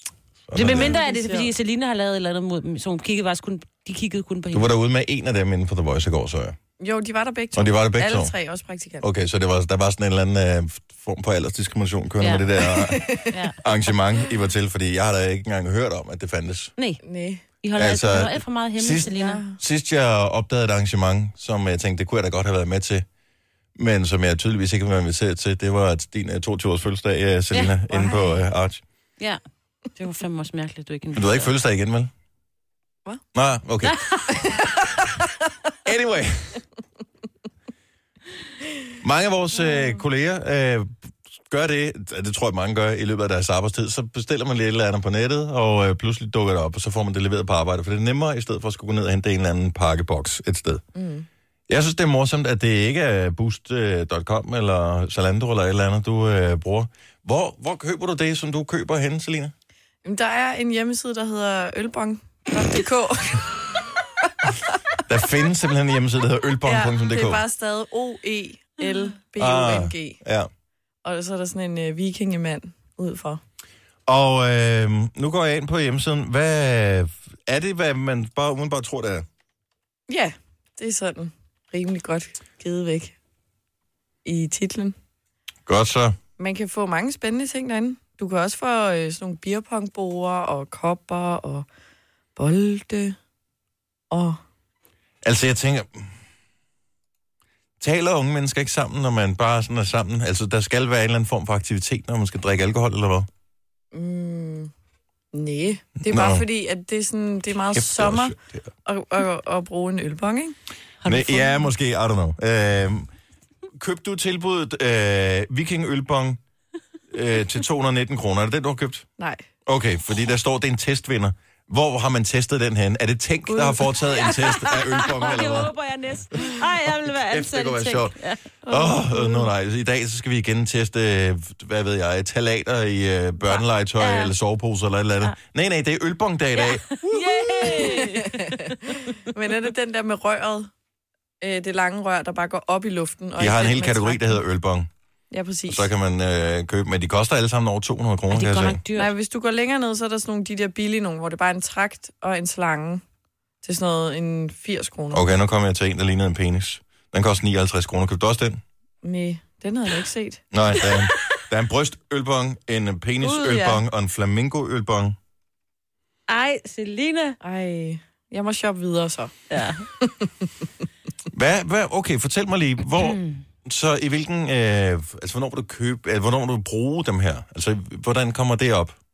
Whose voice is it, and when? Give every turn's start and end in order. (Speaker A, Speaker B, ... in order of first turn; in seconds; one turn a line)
Speaker A: 0.5-1.0
Speaker B: 0.5-4.7
Speaker C: 0.6-1.5
Speaker A: 4.5-6.6
Speaker C: 6.8-9.1
Speaker A: 7.5-8.3
Speaker A: 9.0-16.7
Speaker B: 12.2-12.5
Speaker C: 12.7-13.3
Speaker B: 13.3-13.6
Speaker C: 17.0-17.4
Speaker B: 17.6-19.4
Speaker A: 17.8-23.1
Speaker C: 19.0-19.6
Speaker A: 23.8-28.8
Speaker C: 27.9-28.4
Speaker B: 29.9-31.5
Speaker A: 31.1-32.1
Speaker A: 33.3-34.5
Speaker B: 33.9-34.3
Speaker A: 35.9-36.6
Speaker A: 39.0-50.8
Speaker C: 39.6-40.0
Speaker C: 51.0-51.3
Speaker A: 51.7-59.5
Speaker C: 60.0-63.5
Speaker A: 65.1-67.4
Speaker C: 66.6-70.2
Speaker A: 69.4-70.5
Speaker C: 71.0-73.4
Speaker A: 74.1-79.3
Speaker C: 80.1-83.1
Speaker C: 84.2-85.0
Speaker A: 85.7-86.2
Speaker C: 86.4-91.7
Speaker C: 92.4-93.2
Speaker C: 94.1-94.4
Speaker A: 95.2-96.1
Speaker A: 97.8-103.3
Speaker C: 103.9-104.7
Speaker C: 105.3-108.3
Speaker A: 106.0-106.5
Speaker A: 107.7-108.7
Speaker C: 108.9-110.6
Speaker B: 111.0-111.6
Speaker A: 111.0-113.1
Speaker A: 113.8-116.4
Speaker A: 117.1-119.1
Speaker C: 119.2-119.4
Speaker A: 119.7-125.7
Speaker C: 123.5-124.4
Speaker B: 124.1-128.4
Speaker A: 127.2-128.2
Speaker C: 128.7-129.5
Speaker A: 128.7-138.0
Speaker B: 133.5-134.3
Speaker B: 136.6-138.7
Speaker C: 137.7-140.7
Speaker C: 141.4-144.4
Speaker A: 143.4-144.9
Speaker C: 145.3-145.9
Speaker A: 145.7-148.8
Speaker B: 148.3-149.1
Speaker C: 148.9-153.0
Speaker C: 153.6-155.2
Speaker A: 155.1-158.6
Speaker C: 159.0-160.4
Speaker A: 160.5-165.2
Speaker C: 163.2-163.8
Speaker B: 166.3-167.4
Speaker C: 167.4-169.3
Speaker B: 169.5-169.8
Speaker C: 170.0-170.5
Speaker A: 171.3-179.0
Speaker B: 173.0-173.4